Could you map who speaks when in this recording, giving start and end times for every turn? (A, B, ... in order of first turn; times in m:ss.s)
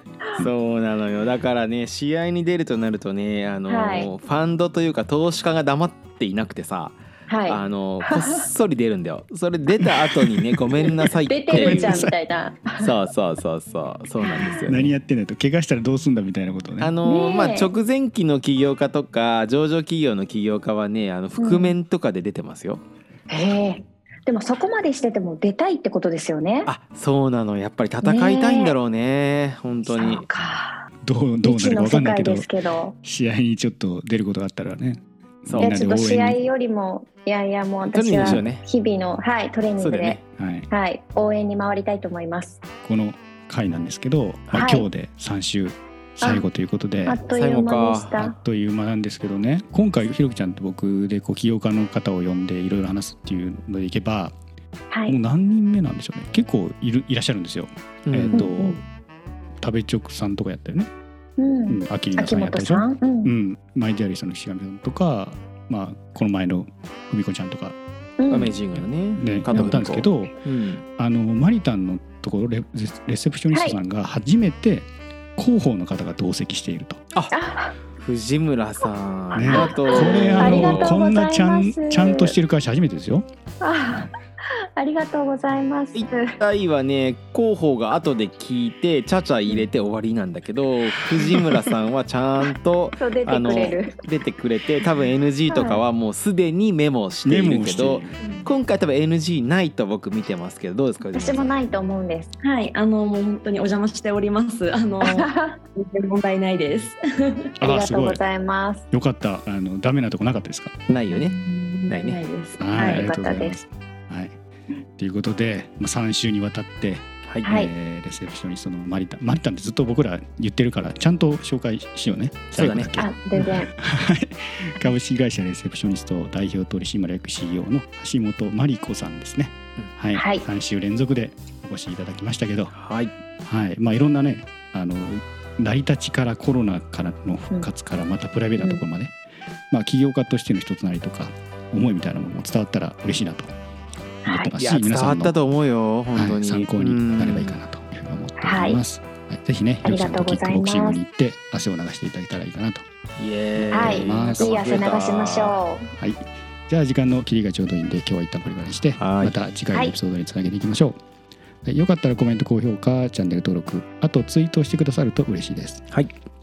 0:00.4-0:12.0 A
0:03.7-0:04.1 B
0:07.3-0:08.4 B
0:09.8-0:10.2 C
0:11.2-0:12.9 B
0:11.5-0:12.2 C
0:12.8-0:14.9 A
0:14.2-0:14.7 B
0:14.6-0:16.9 C
0:16.8-0:22.8 A
0:17.0-0:17.7 B
0:21.4-0:21.8 B
0:23.3-0:26.7 B
0:26.6-0:30.3 A
0:28.0-0:28.8 B
0:29.8-0:30.9 B
0:31.0-0:32.5 C
0:31.4-0:32.9 B
0:33.0-0:36.4 C
0:35.4-0:35.8 A
0:35.6-0:42.6 B
0:37.8-0:38.6 A
0:38.2-0:38.4 C
0:39.8-0:40.2 A
0:40.4-0:40.7 C
0:42.8-0:47.2 C
0:44.5-0:44.9 B
0:46.2-0:46.4 B
0:47.0-0:48.3 B
0:47.3-0:48.2 A
0:48.2-0:54.3 C
0:54.9-0:55.2 B
0:55.1-0:58.8 C
0:58.0-0:58.5 A
0:58.3-0:58.8 B
0:59.6-1:00.9 C
1:01.4-1:03.3 B
1:01.7-1:07.8 C
1:08.2-1:08.6 B
1:08.3-1:10.8 A
1:09.1-1:10.3 C
1:09.5-1:09.8 B
1:11.0-1:17.0 C
1:13.5-1:13.8 B
1:17.3-1:17.7 B
1:18.0-1:21.0 A
1:19.3-1:23.2 C
1:19.4-1:22.3 B
1:23.6-1:24.1 B
1:24.7-1:26.3 B
1:25.9-1:41.5 A
1:33.0-1:34.0 B
1:35.5-1:35.8 B
1:37.2-1:38.2 C
1:41.1-1:42.3 B
1:42.4-1:47.5 D
1:45.0-1:45.6 B
1:47.6-1:48.2 C
1:47.6-1:48.8 B
1:48.9-1:50.7 C
1:50.9-1:51.3 A
1:51.1-1:53.0 D
1:51.9-1:52.2 A
1:52.6-1:54.4 C
1:52.7-1:53.6 B
1:55.0-2:12.7 C
1:57.4-1:57.7 B
2:02.5-2:02.9 A
2:03.0-2:03.7 B
2:10.2-2:10.5 B
2:12.7-2:13.1 A
2:13.4-2:19.1 C
2:19.7-2:23.5 C
2:24.2-2:24.5 B
2:24.2-2:25.4 C
2:24.6-2:27.6 A
2:26.1-2:32.8 C
2:28.4-2:28.8 B
2:29.8-2:31.0 B
2:33.2-2:35.6 A
2:33.6-2:34.6 C
2:33.7-2:35.9 B
2:36.0-2:41.0 C
2:39.0-2:39.4 A
2:41.6-2:45.9 C